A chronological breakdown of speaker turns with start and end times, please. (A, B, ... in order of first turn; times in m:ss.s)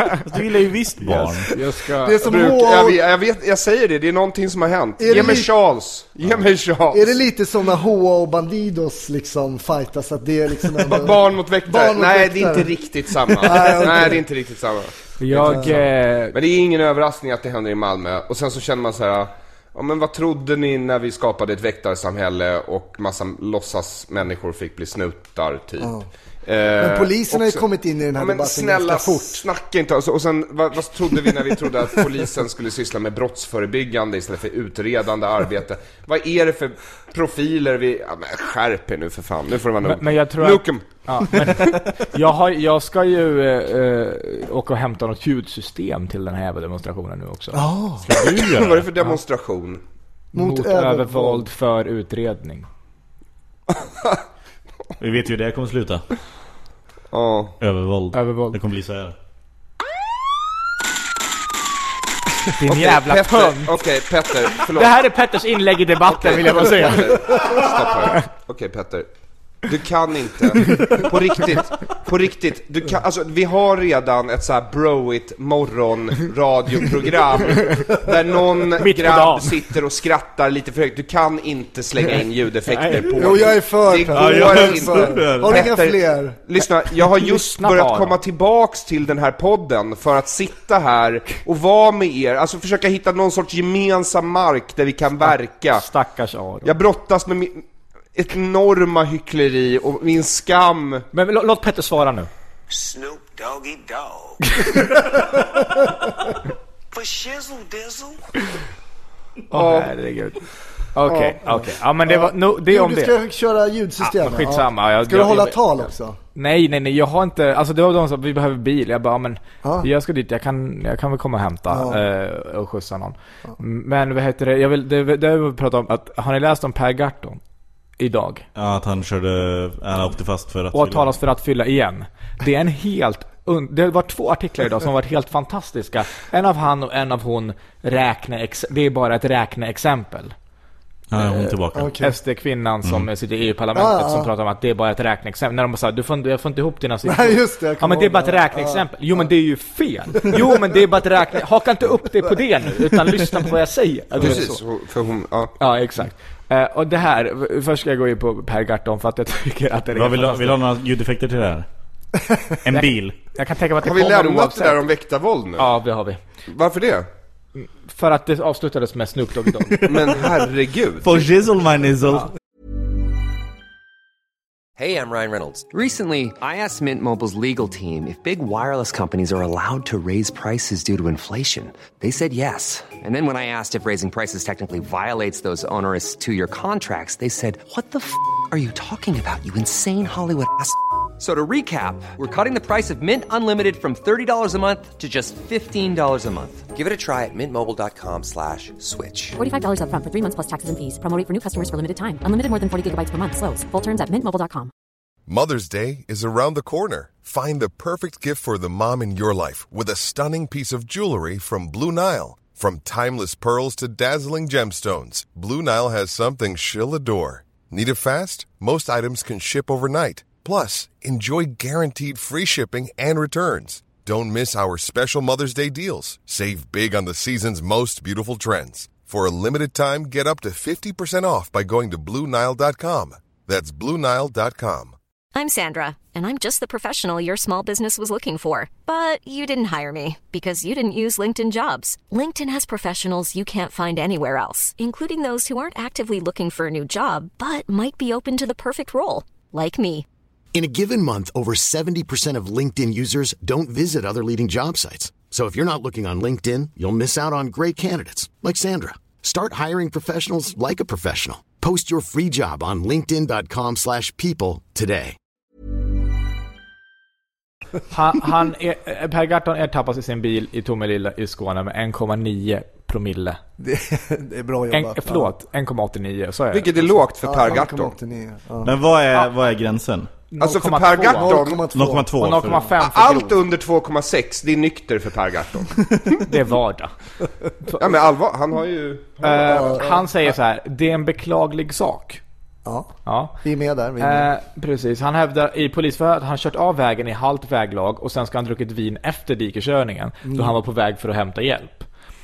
0:00.2-0:01.5 A
0:01.0-0:02.2 B
0:01.9-0:03.0 C
0:02.2-0:07.2 D
0:05.0-0:05.5 C
0:06.9-0:12.7 C
0:10.8-0:27.6 D
0:13.2-0:14.2 C
0:15.2-0:16.3 B
0:15.4-0:15.7 C
0:25.8-0:26.0 C
0:26.8-0:29.4 C
0:28.2-0:41.5 D
0:39.8-0:47.6 B
0:47.5-0:48.0 C
0:48.1-0:48.9 A
0:48.2-0:49.8 D
0:50.3-0:51.5 C
0:50.3-0:52.7 B
0:55.0-0:56.0 A
0:57.1-0:57.5 D
0:57.6-0:59.1 A
0:58.1-0:58.6 B
1:02.6-1:03.7 B
1:02.7-1:05.0 D
1:04.5-1:07.6 B
1:06.1-1:09.1 D
1:09.6-1:35.8 D
1:10.7-1:11.0 B
1:18.8-1:19.6 B
1:22.7-1:23.3 B
1:23.1-1:26.4 C
1:24.1-1:25.7 A
1:27.0-1:28.2 B
1:35.2-1:36.7 B
1:36.6-1:41.0 D
1:41.1-1:42.3 B
1:42.7-1:44.6 E
1:44.5-1:44.8 B
1:45.2-1:45.5 E
1:46.9-1:48.2 E
1:49.5-1:50.4 B
1:49.5-1:49.9 D
1:50.9-1:53.1 B
1:51.4-1:56.2 C
1:54.0-2:07.4 B
1:59.6-1:59.9 C
2:01.7-2:02.0 C
2:08.0-2:08.4 B
2:08.6-2:11.2 A
2:10.7-2:20.3 B
2:21.1-2:22.0 A
2:21.2-2:34.6 B
2:21.7-2:22.1 C
2:23.7-2:24.3 C
2:27.0-2:29.3 C
2:34.2-2:35.5 D
2:35.6-2:40.6 B
2:39.9-2:41.6 A
2:42.6-2:43.2 A
2:42.7-2:44.8 B
2:43.8-2:45.7 D
2:45.6-2:46.2 B
2:46.5-2:47.1 D
2:47.6-2:49.9 B
2:49.8-2:51.2 D
2:51.0-2:52.3 A
2:54.8-3:19.4 F
3:19.4-3:24.7 G
3:25.3-3:54.9 H
3:55.3-4:10.0 I
4:10.5-4:25.2 J
4:27.9-4:33.4 B
4:33.6-4:35.3 C
4:34.7-4:37.0 B
4:36.5-4:37.9 D
4:37.2-4:38.7 C
4:38.6-4:40.1 A
4:40.3-4:41.4 B
4:40.4-4:41.6 D
4:41.0-4:42.2 C
4:41.7-4:42.7 A
4:42.2-4:43.3 B
4:42.8-4:45.8 D
4:46.2-4:46.9 B
4:47.8-4:49.8 D
4:49.2-4:52.2 B
4:49.5-4:50.0 C
4:52.6-4:54.3 C
4:53.0-4:53.4 B
4:54.0-5:01.9 B
5:00.2-5:00.5 C